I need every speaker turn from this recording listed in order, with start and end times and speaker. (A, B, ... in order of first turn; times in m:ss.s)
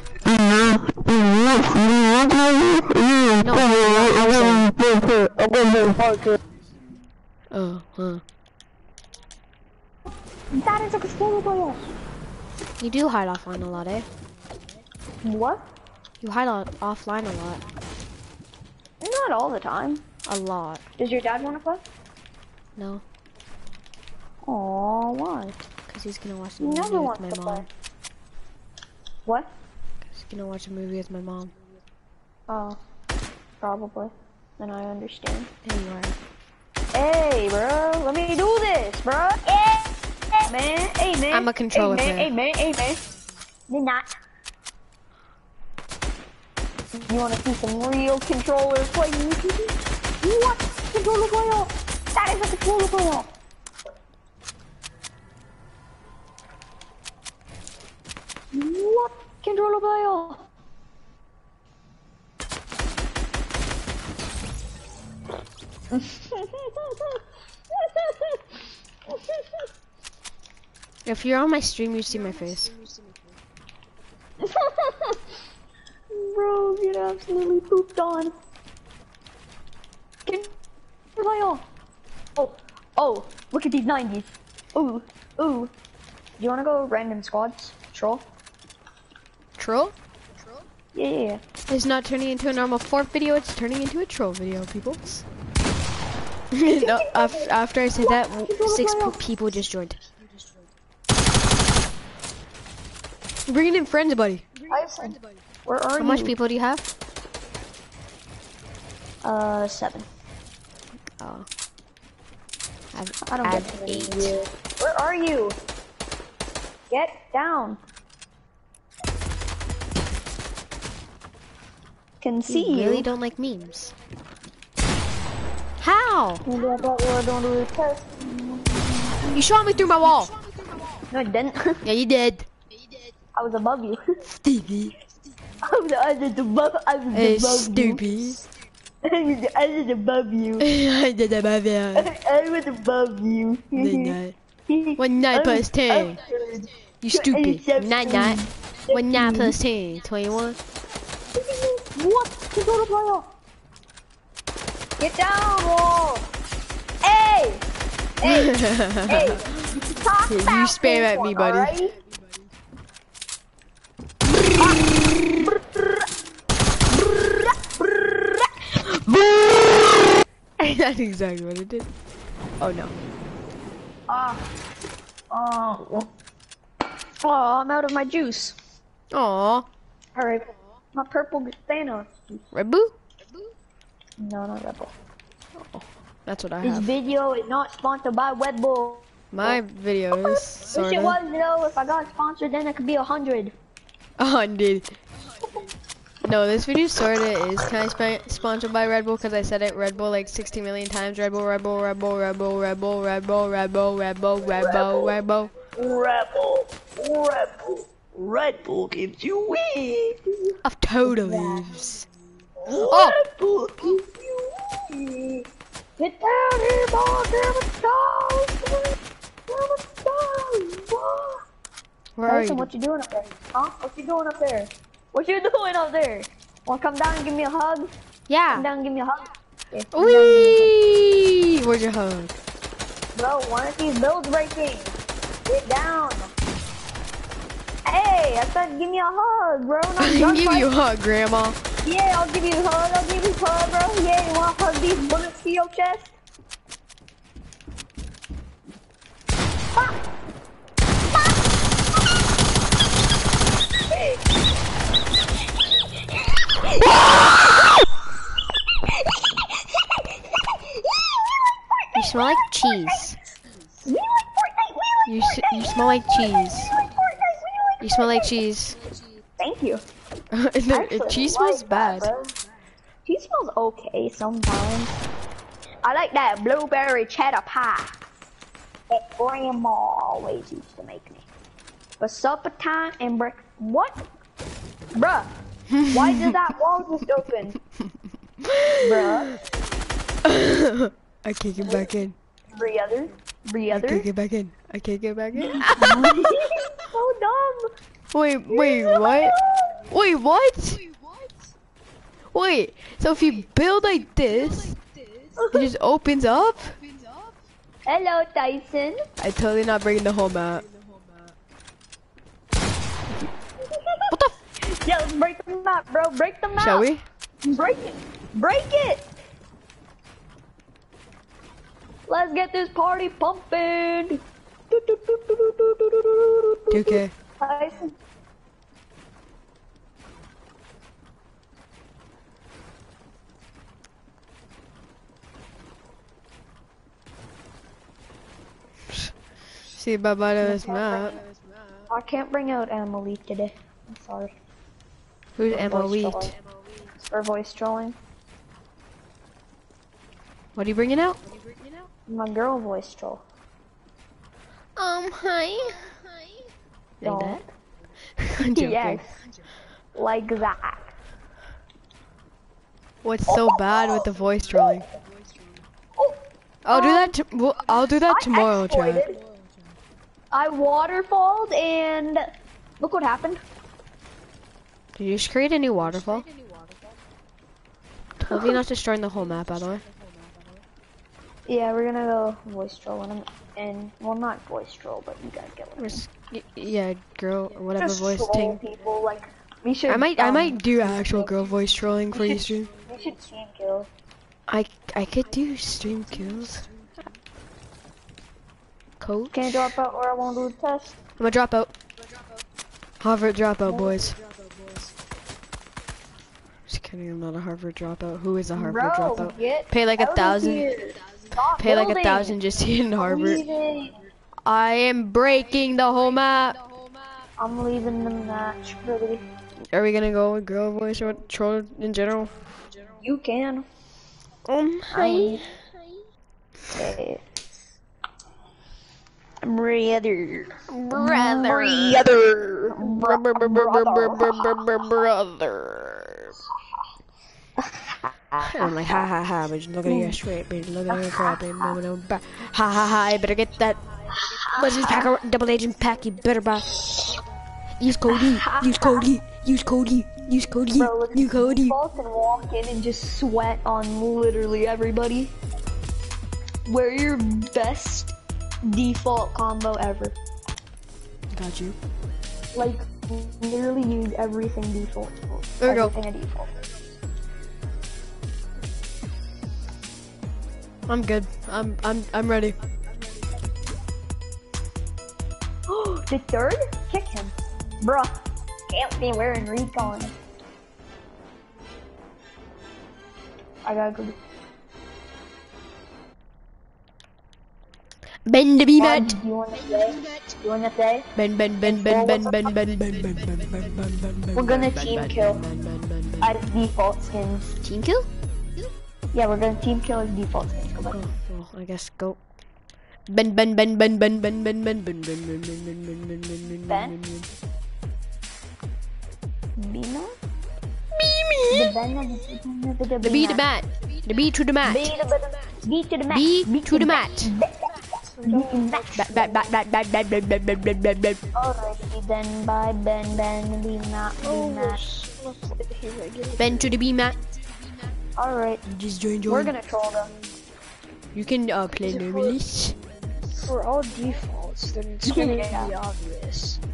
0:00.2-0:06.4 A
0:03.4-0:04.7 B
0:07.5-0:08.2 B
0:10.5-0:11.9 C
0:12.8-0:14.0 B
0:15.2-0:15.6 C
0:16.2-0:17.6 B
0:19.0-0:20.0 C
0:20.2-0:20.8 B
0:21.0-0:21.8 C
0:22.8-0:23.0 B
0:24.4-0:25.6 C
0:25.9-0:27.7 B
0:26.6-0:27.7 C
0:29.2-0:29.5 C
0:30.0-0:31.5 B
0:32.5-0:32.8 C
0:33.6-0:35.5 C
0:35.6-0:36.2 B
0:36.9-0:43.0 C
0:41.3-0:42.3 B
0:43.7-0:44.1 C
0:46.9-0:53.3 C
0:58.5-1:00.4 C
1:05.9-1:08.5 C
1:09.1-1:09.6 C
1:11.0-1:12.8 B
1:14.4-1:15.2 C
1:16.1-1:18.3 C
1:20.2-1:20.5 C
1:21.2-1:21.6 C
1:22.4-1:25.7 C
1:26.4-1:28.2 C
1:29.6-1:29.9 B
1:30.9-1:31.4 C
1:31.7-1:35.2 B
1:36.5-1:40.0 B
1:36.7-1:39.2 C
1:43.5-1:44.4 B
1:44.7-1:46.3 C
1:46.0-1:46.9 B
1:49.2-1:50.1 C
1:51.2-1:51.5 B
1:52.9-1:54.4 B
1:53.2-1:55.6 C
1:56.9-1:57.8 C
2:02.2-2:03.1 C
2:02.5-2:03.9 B
2:05.8-2:06.4 B
2:06.4-2:09.3 C
2:09.2-2:10.3 B
2:11.1-2:11.8 C
2:11.8-2:12.5 B
2:13.3-2:14.2 C
2:14.3-2:14.9 B
2:15.6-2:18.0 C
2:17.1-2:18.4 B
2:19.0-2:20.7 C
2:20.6-2:22.1 B
2:21.9-2:29.6 C
2:23.7-2:24.4 B
2:25.0-2:26.2 B
2:27.0-2:30.6 B
2:31.3-2:33.3 C
2:35.0-2:36.3 C
2:37.0-2:37.7 C
2:38.2-2:42.0 C
2:38.2-2:39.5 B
2:40.3-2:41.8 B
2:44.5-2:45.9 C
2:46.9-2:49.6 C
2:50.6-2:51.9 B
2:52.6-2:52.9 B
2:54.1-2:54.4 C
2:55.3-2:56.1 C
2:57.2-2:58.6 C
2:59.1-2:59.7 B
3:00.1-3:02.4 C
3:02.5-3:02.9 B
3:04.2-3:04.9 C
3:05.6-3:06.9 B
3:06.6-3:09.6 C
3:09.3-3:11.2 B
3:10.1-3:13.5 C
3:14.2-3:14.9 B
3:16.2-3:25.5 B
3:24.5-3:25.1 C
3:25.7-3:31.7 C
3:30.6-3:32.0 B
3:32.6-3:39.0 C
3:32.8-3:33.2 B
3:39.5-3:41.4 C
3:42.2-3:42.7 B
3:42.2-3:47.9 C
3:48.3-3:48.7 B
3:48.5-3:50.7 C
3:49.9-3:52.4 B
3:53.1-3:56.3 C
3:57.8-4:00.7 C
4:00.0-4:01.6 B
4:01.8-4:06.1 C
4:11.1-4:11.4 C
4:13.8-4:14.2 C
4:16.0-4:17.8 C
4:18.8-4:22.5 C
4:21.9-4:23.2 B
4:23.8-4:28.3 C
4:25.0-4:26.7 B
4:27.8-4:28.8 B
4:29.4-4:29.8 C
4:30.3-4:32.1 B
4:30.7-4:32.3 C
4:33.0-4:35.0 C
4:35.8-4:38.0 C
4:38.9-4:41.2 C
4:42.0-4:44.0 C
4:44.9-4:45.3 C
4:45.7-4:46.4 B
4:45.9-4:47.6 C
4:48.4-4:49.4 B
4:48.8-4:49.4 C
4:50.2-4:52.1 B
4:51.6-4:51.9 C
4:52.5-4:54.1 C
4:53.7-4:56.3 B
4:55.4-4:57.7 C
4:58.1-4:59.3 B
4:58.5-4:59.9 C
4:59.9-5:00.8 B
5:02.3-5:04.8 B
5:05.4-5:05.7 C
5:05.5-5:06.8 B
5:07.8-5:09.0 C
5:09.2-5:10.6 B
5:13.6-5:16.9 C
5:14.1-5:14.3 B
5:16.6-5:17.0 B
5:17.4-5:19.0 C
5:22.1-5:27.9 C
5:26.7-5:27.1 B
5:39.7-5:41.2 B
5:40.4-5:41.2 C
5:41.9-5:44.4 C
5:45.4-5:46.3 B
5:45.5-5:46.3 C
5:47.0-5:48.0 C
5:50.6-5:51.2 B
5:52.1-5:53.2 C
5:54.8-5:56.0 B
5:57.0-5:57.4 B
5:57.0-5:57.5 C
5:58.2-5:59.0 B
5:58.4-5:59.1 C
5:59.9-6:00.9 C
6:03.0-6:04.8 B
6:03.3-6:04.1 C
6:06.0-6:07.1 C
6:06.6-6:09.1 B
6:08.0-6:09.2 C
6:10.3-6:13.4 C
6:15.0-6:16.3 B
6:18.2-6:19.8 B
6:18.3-6:18.6 C
6:21.4-6:26.0 C
6:25.8-6:28.6 B
6:27.8-6:31.3 C
6:29.9-6:32.7 B
6:32.1-6:33.9 C
6:34.5-6:36.7 B
6:39.0-6:39.6 B
6:39.3-6:41.0 C
6:41.2-6:41.7 B
6:43.0-6:44.2 B
6:46.7-6:50.7 B
6:48.6-6:52.4 C
6:51.6-6:53.4 B
6:53.0-6:54.0 C
6:54.4-6:56.6 B
6:57.4-6:59.3 C
6:59.7-7:02.3 B
7:03.0-7:03.6 C
7:04.5-7:05.4 B
7:04.9-7:05.4 C
7:06.7-7:07.2 C
7:09.4-7:12.2 C
7:10.7-7:12.2 B
7:12.2-7:12.6 A
7:12.7-7:14.7 C
7:12.8-7:16.4 B
7:17.6-7:19.1 C
7:18.4-7:23.8 B
7:19.8-7:20.2 C
7:20.9-7:21.8 C
7:24.2-7:25.1 C
7:24.3-7:26.8 B
7:27.8-7:31.8 B
7:28.1-7:29.1 C
7:30.8-7:35.3 C
7:36.6-7:40.2 C
7:41.3-7:41.8 B
7:42.5-7:46.5 C
7:45.6-7:45.9 B
7:50.9-7:52.6 B
7:55.7-8:00.1 C
8:03.6-8:04.2 C
8:08.2-8:09.2 B
8:08.8-8:11.1 C
8:11.2-8:16.3 B
8:11.6-8:12.5 C
8:14.3-8:15.4 C
8:16.2-8:17.6 C
8:17.6-8:18.1 B
8:19.1-8:21.0 C
8:20.9-8:22.2 B
8:23.1-8:27.3 B
8:26.7-8:27.0 C
8:29.6-8:30.2 C
8:30.9-8:31.8 B
8:31.5-8:33.4 C
8:33.0-8:34.9 B
8:34.6-8:39.5 C
8:36.1-8:37.3 B
8:38.2-8:38.9 D
8:38.9-8:41.2 B
8:41.3-8:44.8 C
8:44.2-8:46.8 D
8:46.4-8:47.2 B
8:48.2-8:48.6 C
8:48.6-8:49.5 B
8:49.3-8:50.1 C
8:51.1-8:52.7 B
8:51.7-8:52.4 D
8:53.4-8:56.6 D
8:55.0-8:55.7 C